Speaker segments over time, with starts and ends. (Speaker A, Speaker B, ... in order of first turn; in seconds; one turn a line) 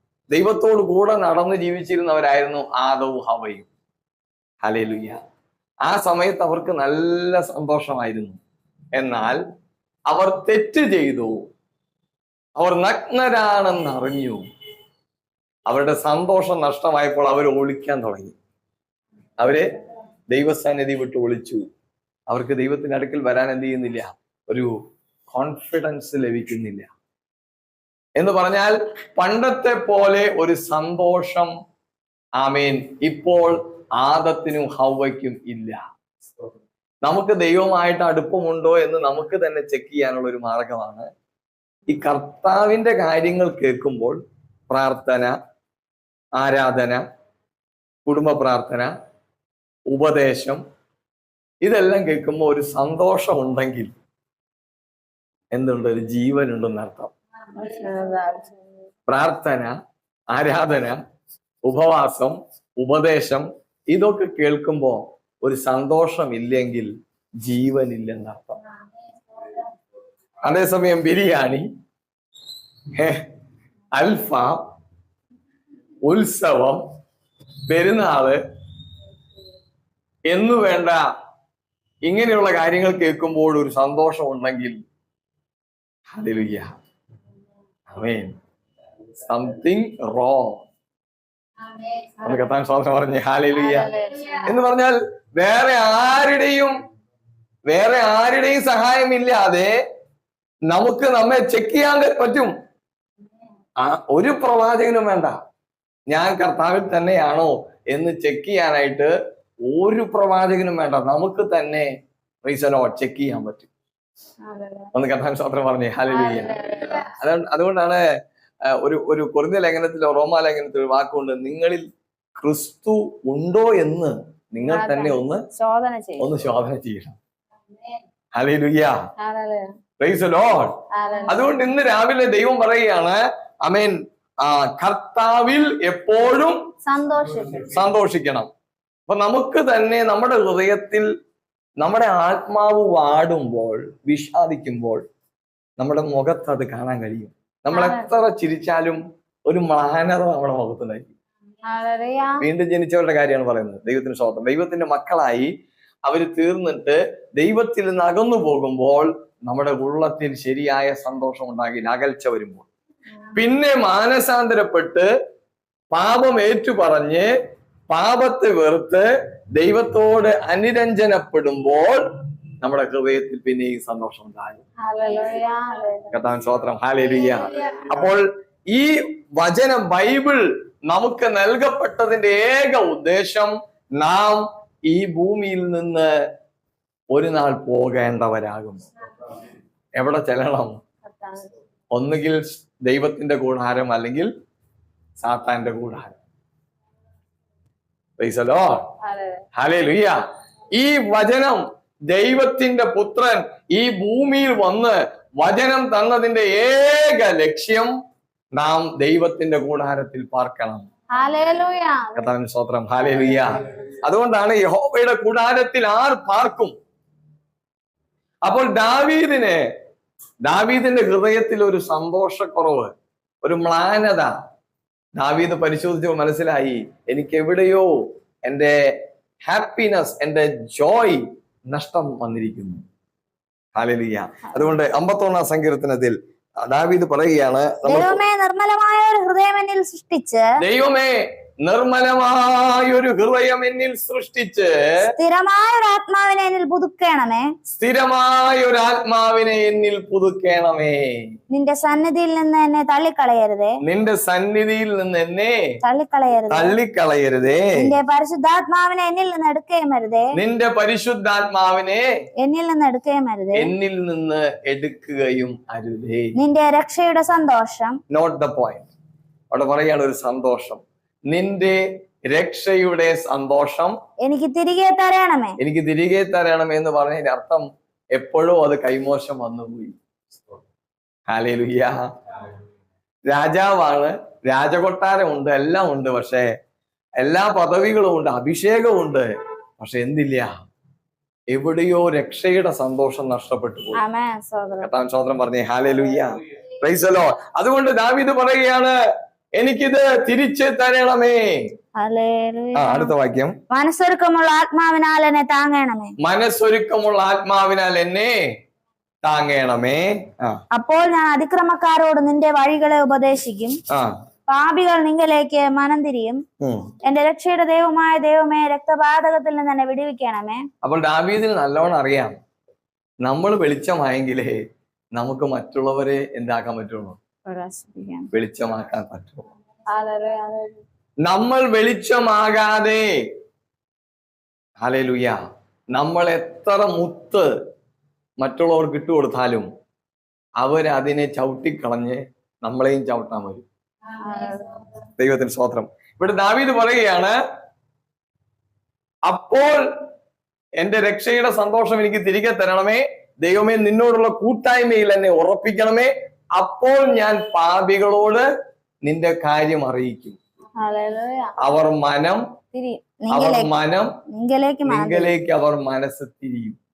Speaker A: 0.3-3.7
Speaker A: 4.6-5.2
Speaker A: 5.8-8.4
Speaker A: 9.0-9.4
Speaker A: 10.1-11.5
Speaker A: 12.6-14.4
Speaker A: 15.7-18.4
Speaker A: 19.4-19.7
Speaker A: 20.3-21.7
Speaker A: 22.3-24.7
Speaker A: 25.3-26.9
Speaker A: 28.2-31.5
Speaker A: 32.4-35.8
Speaker A: 37.0-41.1
Speaker A: 41.9-44.2
Speaker A: 44.7-45.4
Speaker A: 46.4-47.0
Speaker A: 48.1-48.9
Speaker A: 49.9-50.6
Speaker A: 51.6-53.9
Speaker A: 55.5-57.1
Speaker B: 57.6-58.5
Speaker A: 59.1-59.8
Speaker A: 60.3-61.0
Speaker A: 61.7-66.9
Speaker A: 67.4-68.6
Speaker A: 70.5-71.7
Speaker A: 73.0-73.2
Speaker A: 74.0-74.6
Speaker A: 76.1-76.8
Speaker A: 77.7-78.4
Speaker A: 80.3-81.0
Speaker A: 82.1-84.8
Speaker A: 86.1-86.7
Speaker A: 87.9-88.3
Speaker A: 89.3-90.6
Speaker B: 91.7-92.5
Speaker A: 92.2-93.9
Speaker B: 93.5-94.5
Speaker A: 94.5-96.7
Speaker A: 97.7-99.7
Speaker A: 100.7-102.5
Speaker A: 103.8-105.4
Speaker A: 106.1-109.1
Speaker A: 109.7-111.9
Speaker A: 112.5-113.7
Speaker B: 114.5-114.9
Speaker A: 114.9-118.0
Speaker B: 116.1-117.2
Speaker A: 118.8-121.8
Speaker A: 122.4-125.4
Speaker B: 124.6-126.3
Speaker A: 126.2-127.2
Speaker A: 128.4-129.0
Speaker B: 129.2-129.7
Speaker A: 130.0-130.8
Speaker B: 130.9-131.6
Speaker A: 131.3-136.6
Speaker B: 136.9-137.8
Speaker A: 137.6-138.5
Speaker A: 139.1-141.1
Speaker A: 141.8-145.0
Speaker A: 145.8-151.1
Speaker B: 147.7-148.1
Speaker B: 151.7-152.4
Speaker A: 152.4-155.5
Speaker A: 156.1-162.7
Speaker A: 163.3-165.1
Speaker A: 165.9-167.3
Speaker A: 167.9-172.0
Speaker A: 172.6-174.6
Speaker B: 174.8-176.2
Speaker A: 176.1-186.1
Speaker B: 177.4-178.0
Speaker A: 187.1-188.9
Speaker A: 190.0-190.8
Speaker B: 191.1-191.5
Speaker A: 191.9-194.3
Speaker A: 195.2-196.2
Speaker A: 198.2-198.9
Speaker B: 199.0-199.4
Speaker A: 199.6-200.2
Speaker A: 200.8-207.9
Speaker A: 208.6-210.9
Speaker B: 211.1-212.2
Speaker A: 212.2-216.7
Speaker A: 218.4-219.6
Speaker A: 220.5-222.9
Speaker A: 223.4-224.3
Speaker A: 225.2-227.9
Speaker A: 228.5-228.8
Speaker A: 229.5-232.8
Speaker A: 233.8-238.2
Speaker B: 237.8-240.5
Speaker A: 240.6-244.7
Speaker B: 245.0-247.5
Speaker A: 247.7-251.1
Speaker B: 251.5-253.8
Speaker A: 253.8-255.6
Speaker B: 255.8-256.8
Speaker A: 256.5-257.9
Speaker B: 257.8-260.4
Speaker A: 260.3-262.0
Speaker B: 262.4-263.7
Speaker A: 263.6-266.3
Speaker B: 266.4-268.0
Speaker A: 268.1-268.9
Speaker A: 269.5-271.8
Speaker A: 272.3-273.9
Speaker B: 274.2-275.6
Speaker A: 275.6-280.0
Speaker A: 281.3-282.0
Speaker A: 283.3-286.5
Speaker A: 287.2-290.5
Speaker A: 291.5-294.0
Speaker B: 294.0-294.9
Speaker A: 294.8-298.9
Speaker A: 299.6-301.4
Speaker B: 302.0-303.1
Speaker A: 302.8-303.5
Speaker B: 303.7-306.1
Speaker A: 306.2-308.4
Speaker A: 309.2-310.6
Speaker B: 310.7-313.8
Speaker B: 314.5-316.4
Speaker A: 316.6-316.9
Speaker B: 317.0-320.6
Speaker A: 320.8-322.4
Speaker A: 323.2-324.6
Speaker A: 325.2-327.2
Speaker B: 327.5-328.3
Speaker A: 328.3-329.4
Speaker B: 329.9-330.8
Speaker A: 331.3-333.1
Speaker A: 334.8-335.4
Speaker A: 335.9-337.5
Speaker A: 338.4-339.7
Speaker A: 340.6-343.6
Speaker B: 344.2-344.8
Speaker A: 345.2-347.3
Speaker A: 349.3-349.8
Speaker A: 350.8-358.5
Speaker A: 359.1-360.4
Speaker B: 360.8-361.6
Speaker A: 361.6-362.4
Speaker B: 362.7-363.7
Speaker A: 363.3-364.1
Speaker B: 364.3-365.3
Speaker A: 364.9-366.8